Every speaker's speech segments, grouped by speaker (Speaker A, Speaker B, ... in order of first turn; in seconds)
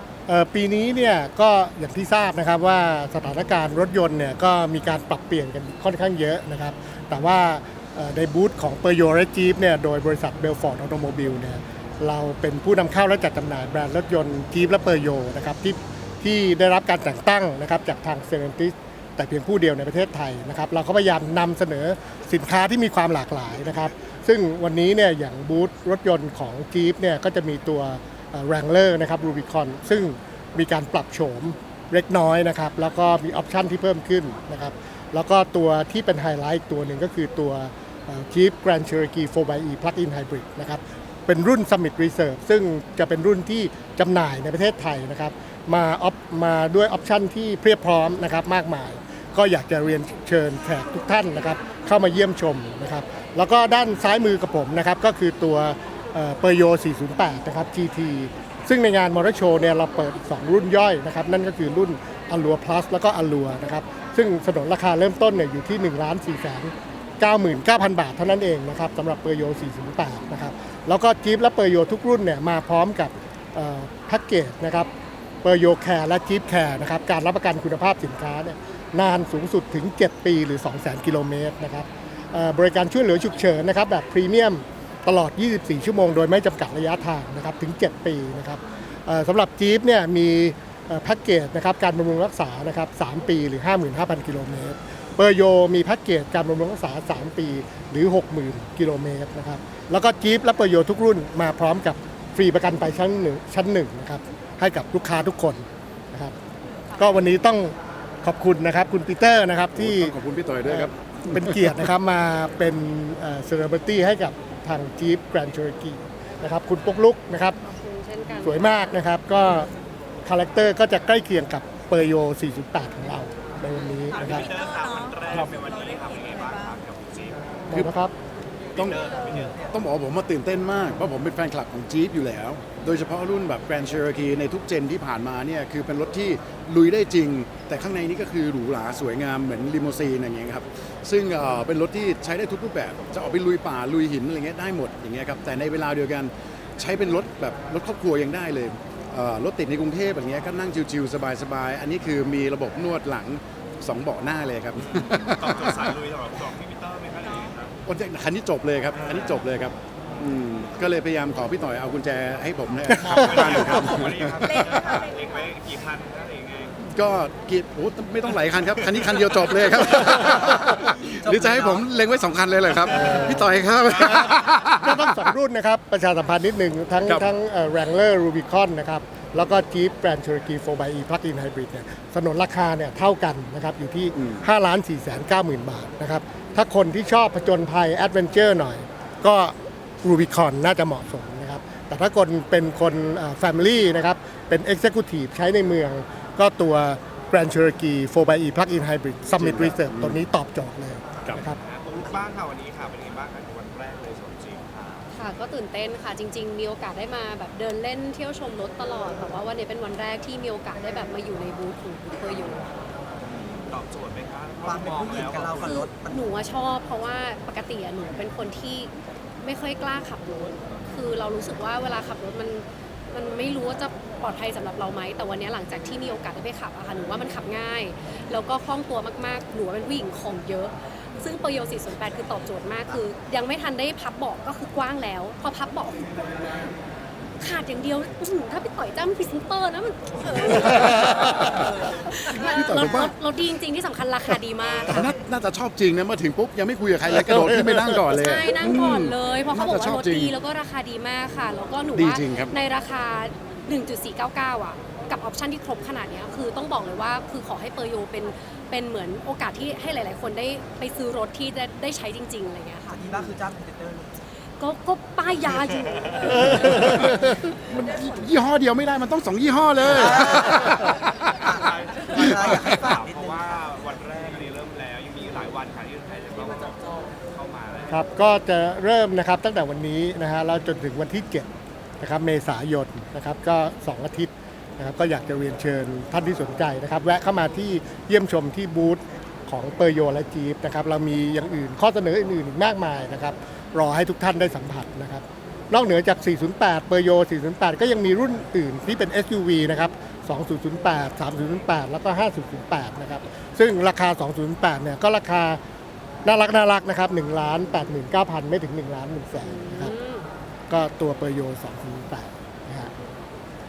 Speaker A: 0.3-74.9, 75.4-106.3, 107.0-117.6, 118.4-119.7, 120.2-124.5, 127.7-128.1, 163.0-164.0, 172.9-173.5, 174.3-201.6, 247.4-248.0, 277.9-281.5, 282.0-305.6, 306.2-309.9, 310.7-312.9
Speaker B: 109.7-111.8, 125.3-125.6, 128.7-156.0, 157.8-165.1, 166.8-175.3, 184.2-184.4, 199.4-200.2, 242.5-243.2, 244.9-250.3, 251.9-252.6, 266.2-271.4, 272.2-272.8
Speaker C: 117.6-118.8, 205.1-212.7, 215.6-218.9, 219.4-236.3, 237.4-245.1, 248.1-263.0, 264.6-267.0, 309.4-310.3
Speaker D: 124.1-127.9, 128.7-129.6, 154.8-157.8, 158.9-159.5, 162.9-166.7, 169.2-169.7, 174.0-174.5, 201.6-205.1, 213.2-215.7, 265.9-266.3, 271.5-278.0
Speaker E: 170.4-170.7, 171.2-171.8, 214.6-216.3, 262.9-264.1, 269.8-270.8, 271.4-274.5